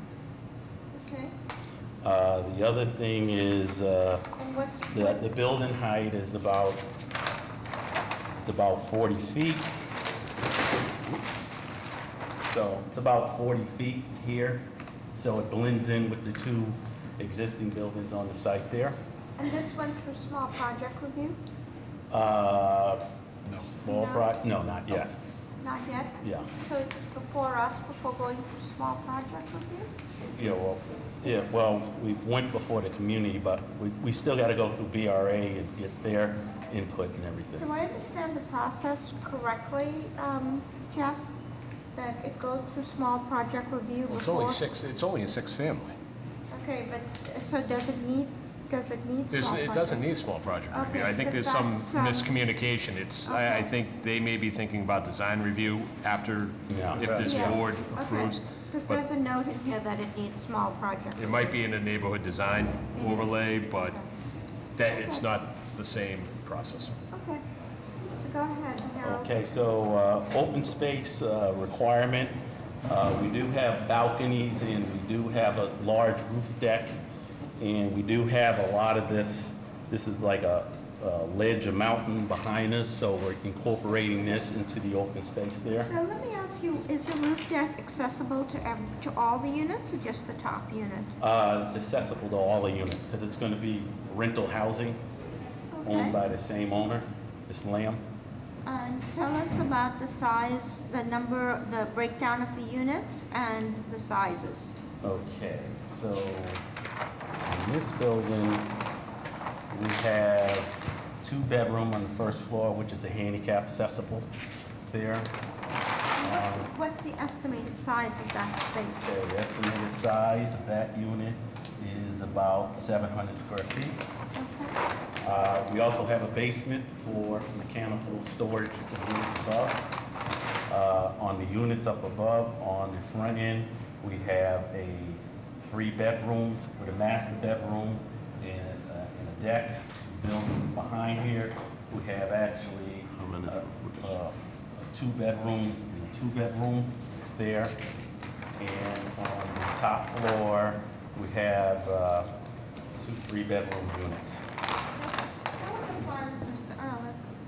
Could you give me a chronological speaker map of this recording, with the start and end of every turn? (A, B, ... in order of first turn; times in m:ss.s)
0:00.9-0:01.3 A
0:02.0-0:04.3 B
0:04.4-0:05.3 A
0:04.9-0:06.8 B
0:08.4-0:09.7 B
0:11.0-0:11.4 B
0:12.5-0:14.6 B
0:15.2-0:19.0 B
0:19.4-0:21.4 A
0:22.1-0:23.0 B
0:23.5-0:25.1 B
0:23.8-0:24.3 A
0:25.6-0:29.9 A
0:26.2-0:26.5 B
0:30.3-0:37.7 B
0:37.6-0:41.3 A
0:41.9-0:44.7 A
0:44.1-0:45.9 C
0:46.5-0:50.0 A
0:49.3-0:59.0 C
0:50.7-0:52.4 A
0:53.2-0:53.7 A
0:56.7-0:57.6 B
0:57.2-1:01.6 A
1:01.2-1:04.0 C
1:03.0-1:04.0 A
1:04.8-1:06.9 C
1:04.8-1:05.2 A
1:07.1-1:07.4 A
1:08.1-1:09.3 A
1:09.0-1:12.3 B
1:12.9-1:17.0 B
1:17.6-1:25.9 B
1:25.8-1:31.1 A
1:31.2-1:35.0 B
1:35.7-1:36.2 A
1:35.8-1:38.0 B
1:38.6-1:44.8 A
1:45.0-1:46.6 B
1:47.4-1:48.7 B
1:49.7-1:54.3 B
1:54.9-1:55.3 B
1:56.2-1:59.1 A
1:56.2-1:56.7 B
1:59.0-2:04.0 B
2:04.3-2:04.8 A
2:05.2-2:09.8 B
2:10.7-2:27.7 B
2:28.6-2:32.3 B
2:33.0-2:34.4 B
2:35.0-2:37.2 A